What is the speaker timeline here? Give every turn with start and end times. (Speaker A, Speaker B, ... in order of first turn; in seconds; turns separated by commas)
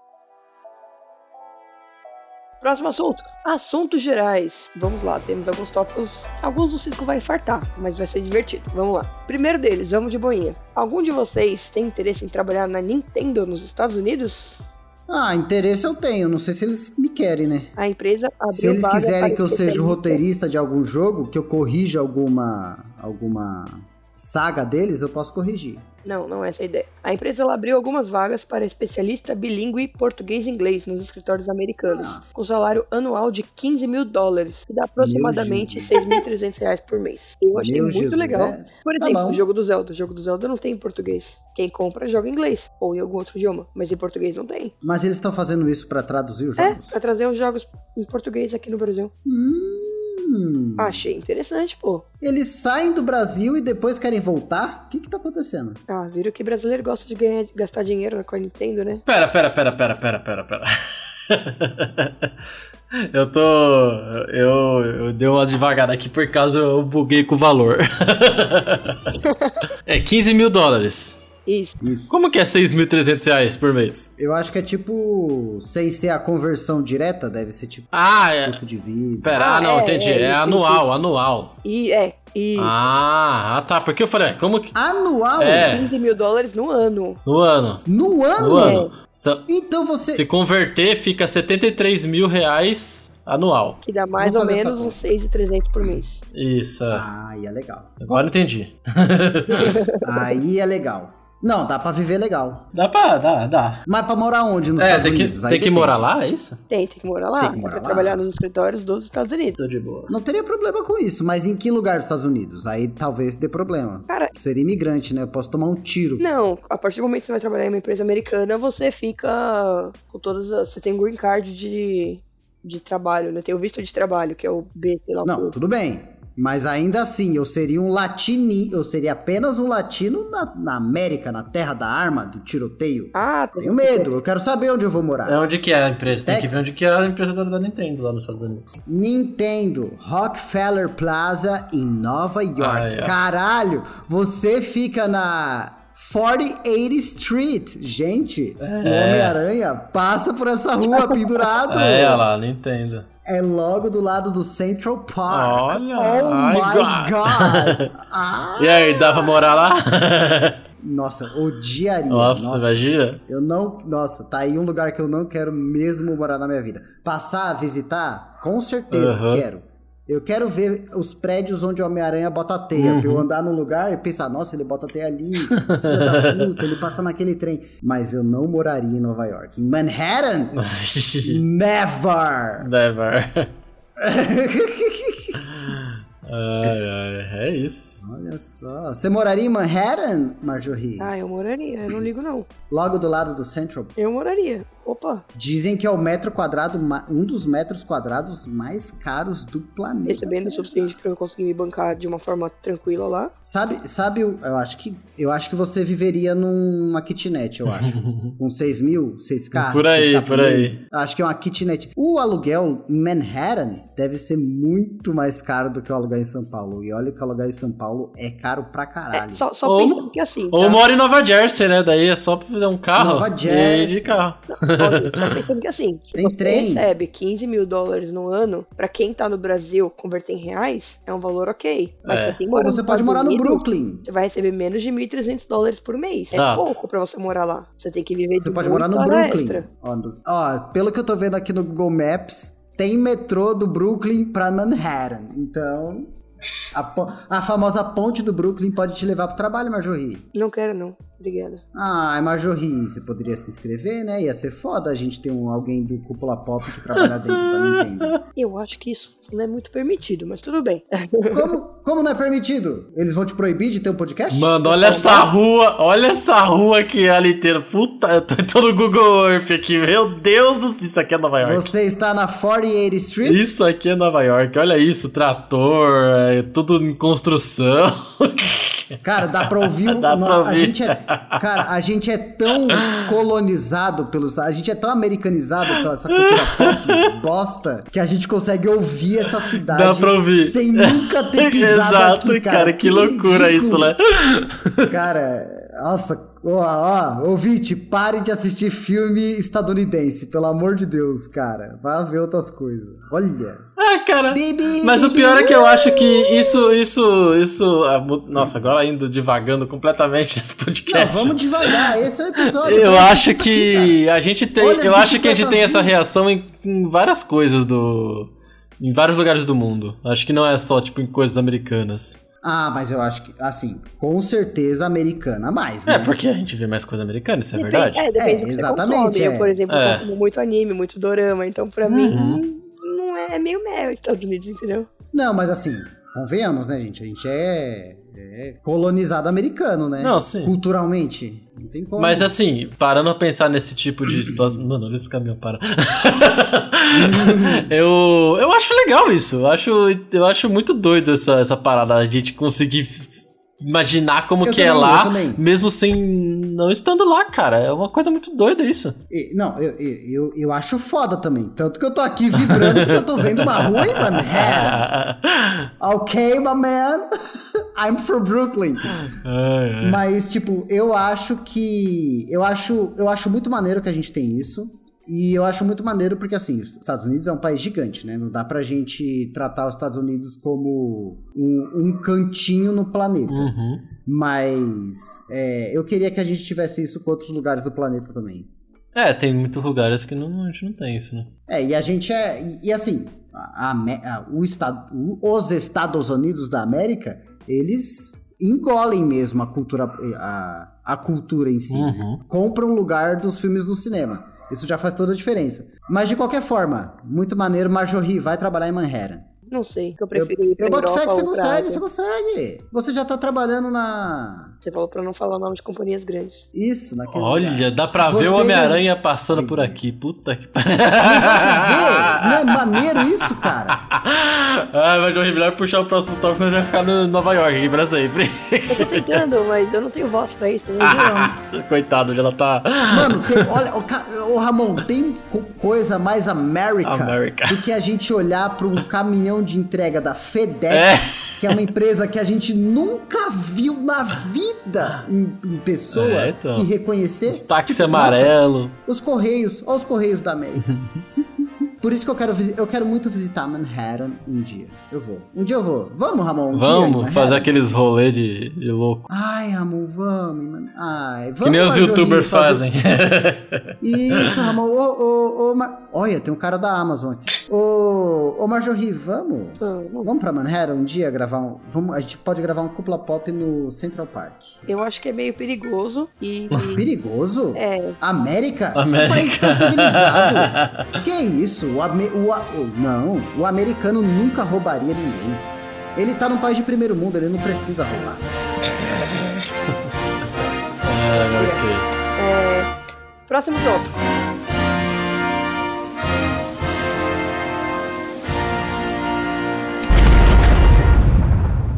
Speaker A: 2.6-14.7, Speaker B: 15.1-17.7, Speaker A: 17.8-20.2, Speaker B: 18.5-25.9, Speaker A: 26.1-44.7, Speaker B: 31.9-32.2, Speaker B: 35.0-36.1, Speaker B: 37.5-39.5, Speaker B: 44.8-47.0, Speaker A: 46.6-49.1, Speaker B: 49.2-51.0, Speaker A: 50.8-52.0, Speaker B: 52.2-55.8, Speaker A: 55.9-59.0, Speaker C: 59.1-60.7, Speaker C: 61.3-62.3, Speaker C: 62.9-69.2, Speaker A: 69.2-69.6, Speaker C: 69.9-71.2, Speaker A: 71.5-71.8, Speaker B: 71.8-72.1, Speaker C: 72.1-74.1, Speaker B: 74.2-79.4, Speaker C: 77.9-78.6, Speaker C: 79.2-81.5, Speaker A: 79.4-81.0, Speaker A: 81.6-82.8, Speaker C: 82.6-84.7, Speaker B: 84.7-85.8, Speaker C: 85.4-85.9, Speaker A: 85.5-87.2, Speaker C: 87.3-87.8, Speaker B: 87.9-88.9, Speaker C: 88.4-89.5, Speaker A: 88.5-88.9, Speaker B: 89.5-90.3, Speaker C: 90.1-93.8, Speaker A: 93.8-96.2, Speaker B: 94.2-95.0, Speaker C: 96.3-97.0, Speaker B: 96.9-98.0, Speaker C: 98.0-99.8, Speaker A: 99.5-100.4, Speaker B: 100.0-102.7, Speaker C: 102.7-103.8, Speaker B: 103.9-106.0, Speaker C: 104.8-106.6, Speaker A: 106.7-109.6, Speaker B: 107.4-108.2, Speaker C: 109.6-110.1, Speaker B: 110.1-116.3, Speaker A: 116.2-125.5, Speaker B: 125.2-135.4, Speaker A: 133.1-134.2, Speaker C: 135.3-138.8, Speaker B: 136.1-136.7, Speaker B: 138.9-152.3, Speaker C: 142.6-143.2, Speaker C: 148.6-149.4, Speaker C: 151.7-153.1, Speaker B: 153.2-159.7, Speaker C: 155.3-157.9, Speaker C: 158.6-160.6, Speaker B: 160.8-180.6, Speaker C: 162.1-163.2, Speaker C: 168.9-169.4, Speaker C: 172.8-173.2, Speaker C: 175.5-176.6, Speaker C: 180.6-181.4, Speaker B: 181.2-182.7, Speaker C: 182.6-183.5, Speaker B: 184.0-185.5, Speaker C: 185.5-188.0, Speaker B: 188.0-191.1, Speaker A: 191.0-192.5, Speaker B: 192.7-193.9, Speaker A: 194.0-195.2, Speaker B: 195.3-200.9, Speaker A: 200.1-203.3, Speaker B: 203.4-219.5, Speaker C: 207.7-208.3, Speaker C: 209.5-210.8, Speaker A: 219.1-220.8, Speaker C: 219.7-225.4, Speaker B: 222.9-224.2, Speaker A: 224.5-239.7, Speaker B: 226.2-226.9, Speaker C: 232.1-232.4, Speaker B: 232.5-234.1, Speaker C: 236.3-236.8, Speaker B: 238.4-246.2, Speaker B: 246.7-250.3, Speaker A: 250.3-251.6, Speaker B: 251.7-258.2, Speaker C: 257.0-258.2, Speaker A: 258.4-261.5, Speaker B: 261.3-265.0, Speaker C: 264.3-271.7, Speaker A: 264.8-265.3, Speaker B: 271.4-273.6, Speaker C: 273.2-278.9, Speaker B: 279.0-293.9, Speaker C: 279.4-281.4, Speaker C: 282.7-283.0, Speaker C: 286.1-287.1, Speaker C: 289.7-294.9, Speaker B: 294.9-303.7, Speaker C: 303.8-311.9, Speaker B: 304.3-306.8, Speaker B: 308.4-308.6, Speaker B: 310.9-314.0, Speaker C: 312.5-322.2, Speaker B: 314.6-315.9, Speaker B: 322.4-326.1, Speaker C: 325.9-328.1, Speaker A: 327.5-334.9, Speaker B: 328.2-329.6, Speaker C: 329.7-330.1, Speaker C: 331.9-332.4, Speaker B: 335.1-342.3, Speaker C: 340.0-340.5, Speaker C: 342.0-359.0, Speaker B: 344.1-344.7, Speaker B: 346.9-347.7, Speaker B: 354.4-355.4, Speaker B: 359.1-364.9, Speaker C: 362.4-365.7, Speaker B: 365.8-369.1, Speaker C: 369.1-370.0, Speaker B: 369.8-388.5, Speaker C: 383.3-383.8, Speaker C: 388.9-391.3, Speaker B: 391.5-409.3, Speaker C: 401.7-402.2, Speaker A: 409.5-411.8, Speaker B: 410.1-414.6, Speaker A: 414.6-416.5, Speaker B: 416.5-419.8, Speaker C: 417.1-429.2, Speaker B: 421.0-423.8, Speaker A: 428.7-431.3, Speaker C: 430.8-433.5, Speaker B: 432.9-457.5, Speaker C: 436.8-437.6, Speaker C: 440.7-441.6, Speaker C: 445.9-446.7, Speaker C: 447.3-448.8, Speaker C: 456.5-459.1, Speaker B: 459.1-462.6, Speaker C: 461.4-464.4, Speaker B: 463.8-474.6, Speaker A: 469.6-470.1, Speaker A: 474.7-476.8, Speaker B: 476.7-488.3, Speaker A: 477.6-478.0, Speaker C: 478.8-480.9, Speaker C: 490.9-491.9, Speaker A: 491.3-491.6, Speaker A: 492.2-492.7, Speaker A: 493.3-494.0